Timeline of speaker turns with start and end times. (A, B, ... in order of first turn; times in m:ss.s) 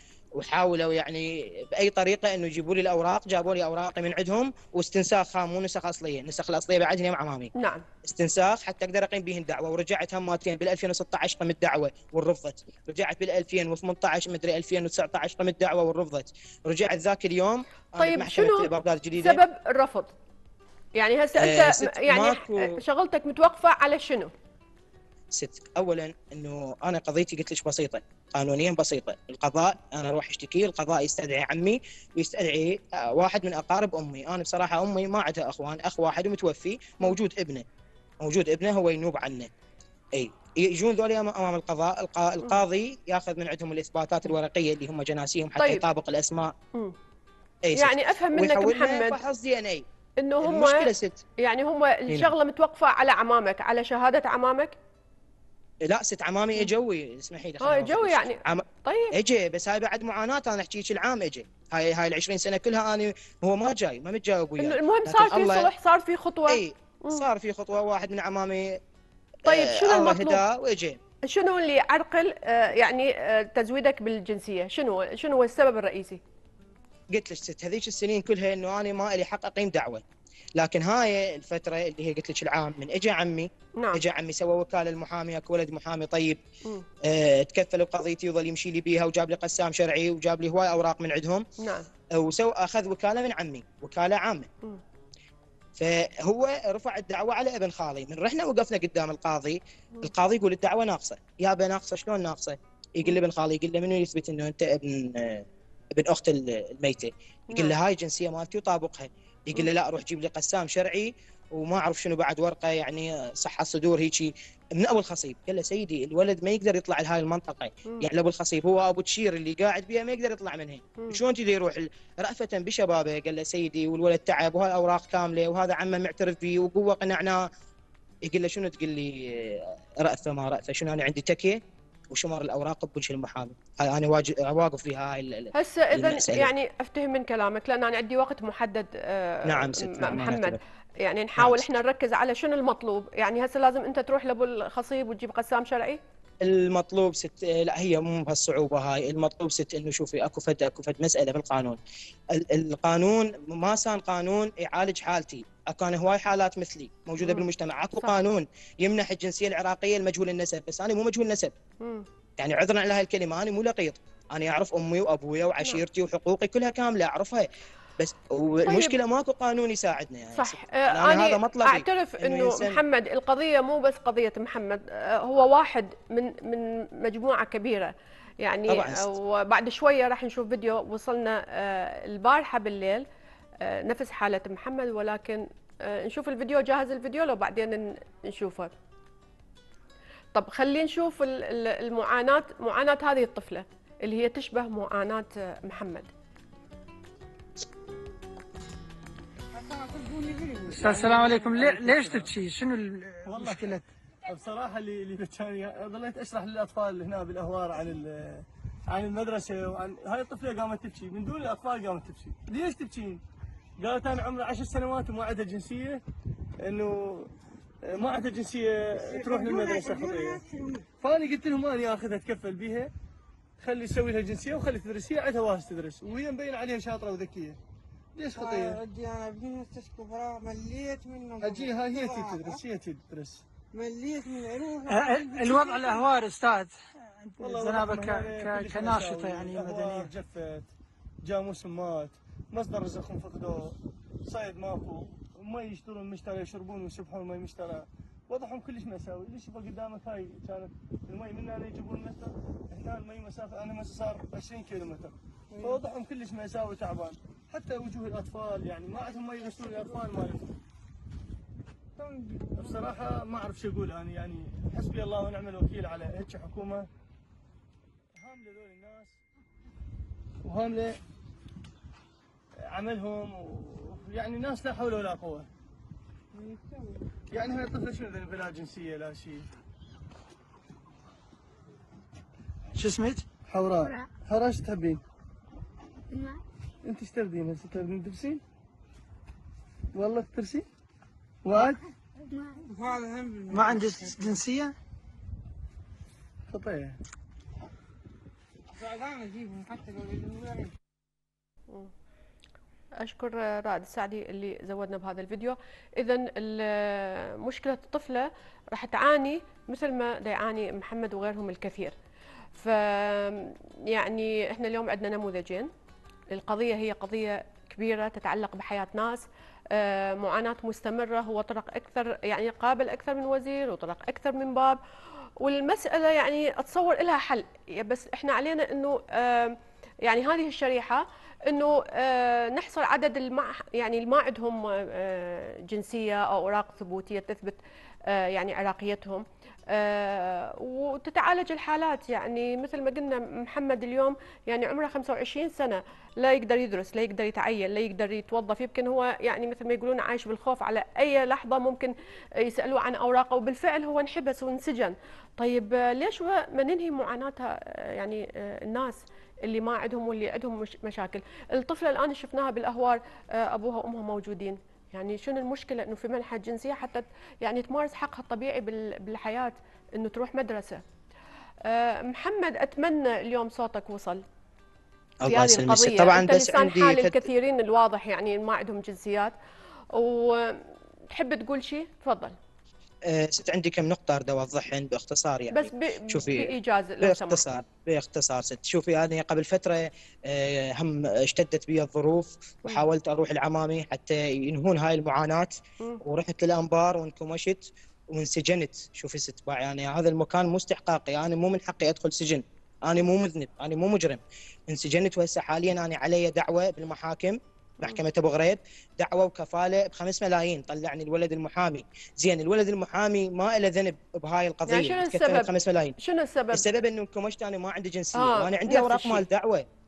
0:00.4-0:07.5 A
0:07.6-0:07.8 B
0:08.0-0:19.4 A
0:18.0-0:20.1 B
0:21.0-0:24.3 B
0:21.4-0:22.8 A
0:25.4-0:37.6 A
0:38.2-0:39.5 A
0:40.1-0:46.5 A
0:45.6-0:45.8 B
0:47.7-0:49.8 A
0:47.7-0:49.2 B
0:50.2-0:54.8 B
0:50.4-0:51.2 A
0:52.1-0:52.3 A
0:55.8-1:05.7 A
0:57.6-0:59.2 B
1:04.6-1:07.3 B
1:06.5-1:08.8 A
1:09.4-1:11.0 A
1:09.4-1:10.4 B
1:11.2-1:16.2 B
1:17.1-1:20.0 A
1:20.6-1:26.4 A
1:23.8-1:24.0 B
1:27.0-1:31.4 A
1:31.6-1:31.9 B
1:32.2-1:34.5 A
1:35.8-2:07.4 A
2:08.3-2:11.6 A
2:12.1-2:16.5 A
2:15.5-2:26.0 B
2:19.5-2:20.6 A
2:21.4-2:21.6 A
2:26.4-2:31.8 A
2:32.3-2:41.5 A
2:37.2-2:37.5 B
2:41.8-2:42.1 B
2:42.4-2:47.5 A
2:48.0-2:52.8 A
2:48.7-2:49.0 B
2:50.3-3:03.1 B
2:58.7-2:59.1 A
3:03.6-3:08.7 B
3:10.3-3:16.1 B
3:19.5-3:20.8 C
3:20.7-3:22.3 D
3:20.7-3:23.8 E
3:23.2-3:33.2 D
3:33.8-3:36.0 D
3:36.6-3:40.5 D
3:39.0-3:40.9 C
3:41.0-3:42.9 D
3:43.6-3:47.6 D
3:48.2-3:48.8 D
3:48.4-3:52.6 C
3:51.4-3:53.4 D
3:53.7-3:56.1 C
3:54.9-4:00.1 E
3:57.4-4:00.7 D
4:01.2-4:20.5 D
4:15.5-4:15.8 C
4:19.2-4:20.1 C
4:22.0-4:22.8 C
4:22.6-4:26.9 D
4:28.2-4:29.2 D
4:30.4-4:31.0 D
4:32.6-4:35.5 D
4:36.3-4:37.0 C
4:37.3-4:39.5 D
4:42.8-4:43.2 E
4:43.5-4:45.0 D
4:46.8-4:48.4 D
4:49.9-4:50.7 D
4:51.4-4:51.8 D
4:52.4-4:54.2 C
4:53.5-4:54.8 E
4:56.5-4:57.0 D
4:58.7-5:00.7 C
5:03.0-5:12.0 B
5:12.5-5:15.7 B
5:16.3-5:24.8 B
5:25.4-6:10.8 B
6:11.6-6:14.2 B
6:15.2-6:17.2 A
6:15.3-6:19.4 B
6:19.9-6:22.4 B
6:23.1-6:56.0 A
6:25.5-6:27.4 B
6:54.7-6:56.7 B
6:56.5-6:59.6 A
6:58.2-6:59.2 B